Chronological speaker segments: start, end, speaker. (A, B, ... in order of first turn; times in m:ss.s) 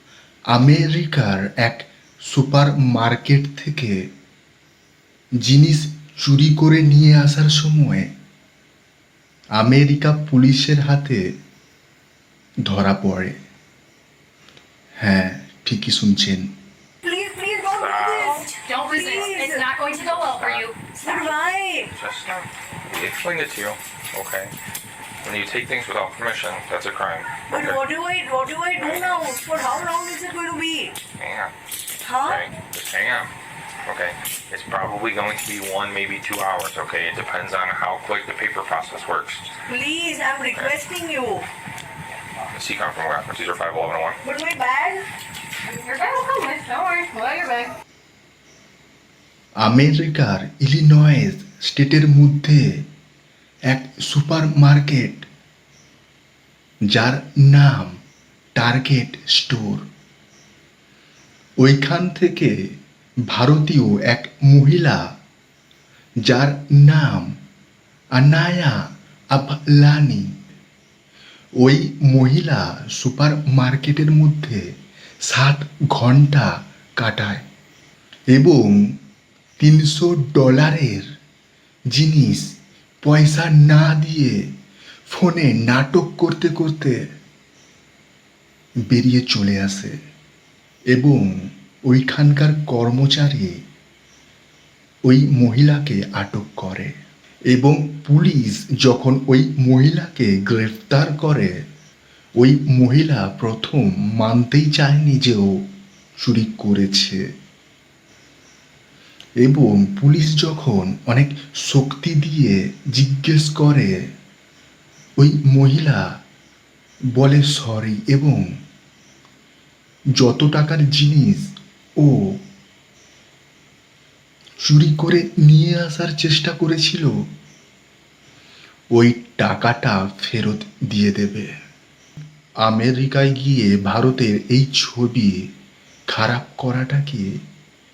0:00.5-0:04.1 A
0:05.4-0:08.1 A
0:09.6-0:11.3 A
0:12.6-0:13.4 A
0:15.0-0:16.5 A
0:17.0-0:19.7 B
0:17.7-0:18.4 C
0:18.2-0:21.3 D
0:20.0-0:20.7 C
0:21.0-0:21.9 B
0:21.9-0:24.5 C
0:25.2-0:27.8 C
0:27.5-0:31.0 B
0:28.8-0:29.8 C
0:31.2-0:31.5 C
0:32.0-0:32.4 B
0:32.2-0:33.3 C
0:33.8-0:39.4 C
0:39.6-0:41.5 B
0:42.5-0:44.2 C
0:44.2-0:45.0 B
0:45.6-0:47.7 D
0:49.6-0:52.8 A
0:53.7-0:55.3 A
0:56.9-0:58.0 A
0:58.6-0:59.9 A
1:01.6-1:02.7 A
1:03.2-1:05.1 A
1:06.2-1:07.3 A
1:08.1-1:10.3 A
1:11.6-1:14.7 A
1:15.2-1:17.4 A
1:18.3-1:19.0 A
1:19.6-1:21.1 A
1:21.9-1:24.5 A
1:25.1-1:27.0 A
1:28.9-1:29.9 A
1:30.9-1:33.6 A
1:35.0-1:36.9 A
1:37.5-1:41.6 A
1:42.4-1:45.6 A
1:46.2-1:47.2 A
1:49.4-1:54.0 A
1:55.2-1:56.1 A
1:57.1-1:58.5 A
2:00.2-2:02.4 A
2:04.6-2:07.2 A
2:08.9-2:11.5 A
2:12.6-2:15.4 A
2:16.1-2:17.4 A